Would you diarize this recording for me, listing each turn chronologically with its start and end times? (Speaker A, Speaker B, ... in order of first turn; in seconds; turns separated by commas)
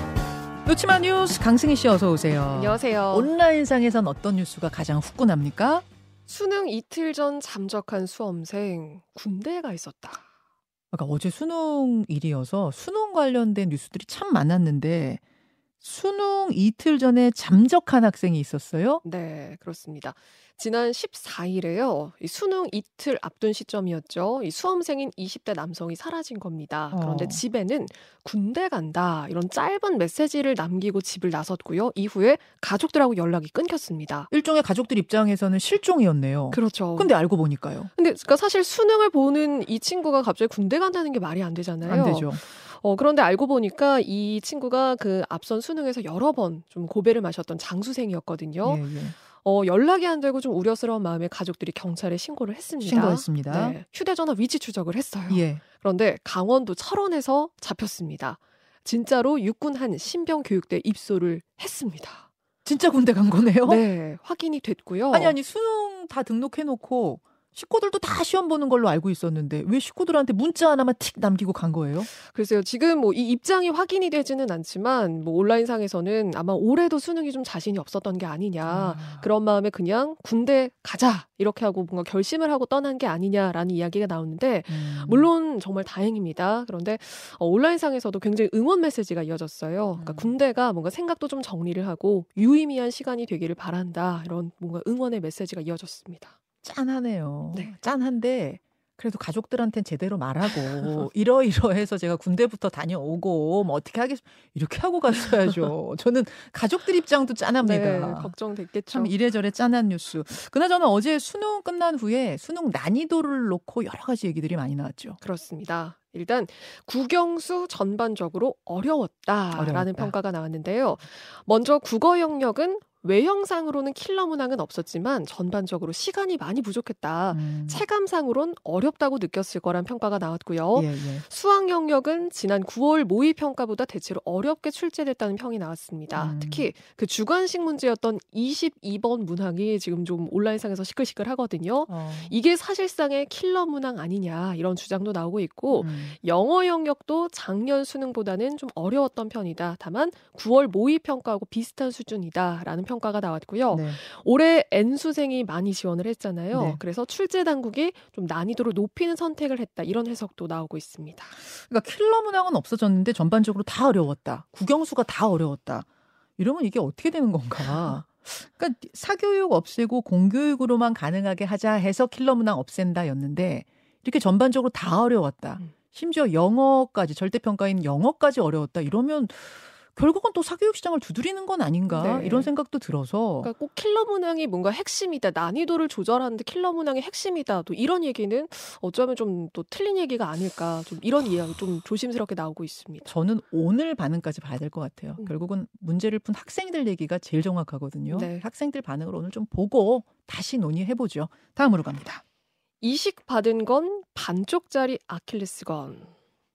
Speaker A: 0.7-5.8, Speaker B: 2.5-3.3, Speaker B: 6.3-10.2, Speaker A: 10.9-15.2, Speaker A: 15.8-19.0, Speaker B: 19.0-34.3, Speaker A: 26.9-27.4, Speaker A: 34.3-37.9, Speaker B: 36.5-37.1, Speaker B: 38.0-62.3, Speaker A: 41.8-42.4, Speaker A: 48.6-49.2, Speaker A: 52.8-53.8, Speaker A: 55.3-55.6, Speaker A: 62.6-63.9, Speaker B: 63.6-65.4, Speaker A: 65.1-72.1, Speaker B: 72.2-96.3, Speaker A: 78.7-79.3, Speaker A: 84.7-85.3, Speaker A: 90.0-90.3, Speaker A: 96.6-108.3, Speaker B: 107.6-109.1, Speaker A: 108.9-115.2, Speaker B: 115.2-161.4, Speaker A: 119.5-120.1, Speaker A: 127.3-127.8, Speaker A: 130.8-131.2, Speaker A: 136.2-136.7, Speaker A: 141.9-142.4, Speaker A: 145.7-146.2, Speaker A: 153.7-154.0, Speaker A: 156.5-156.8, Speaker A: 161.5-165.9, Speaker A: 166.4-183.5, Speaker B: 181.9-182.5, Speaker B: 183.4-193.1, Speaker A: 193.1-202.2, Speaker B: 198.1-198.4, Speaker B: 202.8-206.1